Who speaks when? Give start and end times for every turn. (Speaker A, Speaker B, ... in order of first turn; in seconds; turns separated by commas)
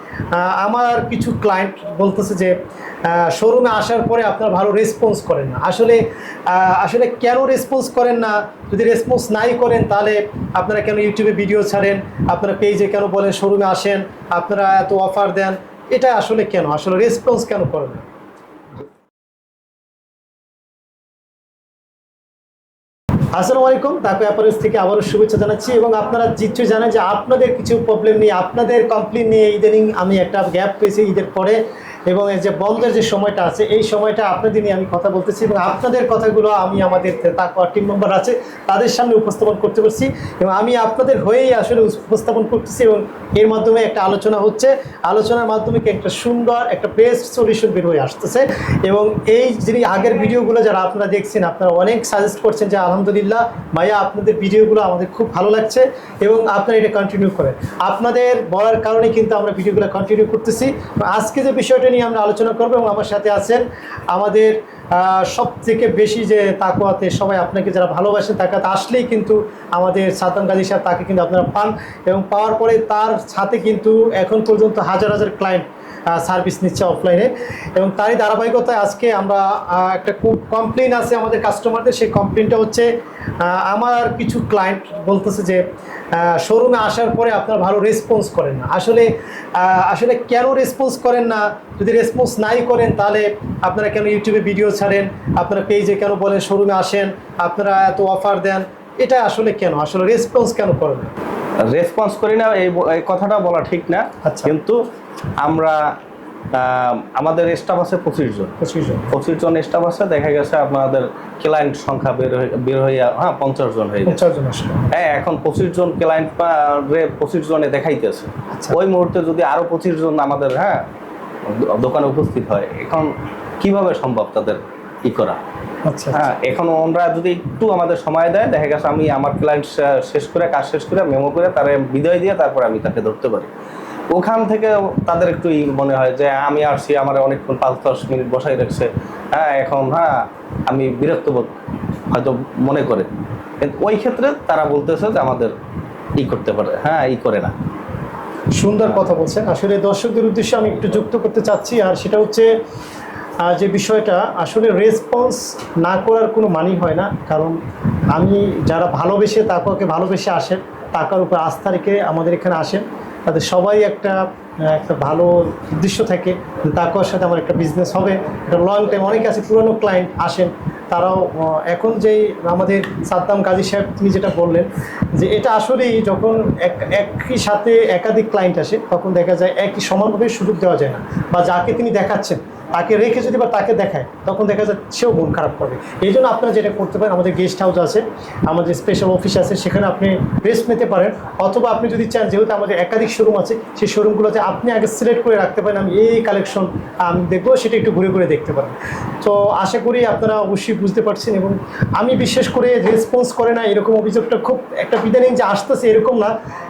Speaker A: 0.3-18.0, Speaker A: 23.3-82.9, Speaker A: 83.4-101.1, Speaker B: 101.7-104.8, Speaker A: 104.2-104.5, Speaker B: 105.4-105.9, Speaker B: 106.5-108.6, Speaker A: 108.6-109.1, Speaker B: 109.1-114.3, Speaker A: 114.1-115.0, Speaker B: 114.9-120.8, Speaker B: 121.5-125.4, Speaker A: 125.8-126.3, Speaker B: 126.1-133.5, Speaker B: 134.1-141.5, Speaker B: 142.1-143.1, Speaker B: 143.6-145.5, Speaker B: 146.2-147.5, Speaker A: 148.6-152.5, Speaker A: 153.4-157.6, Speaker A: 158.1-206.3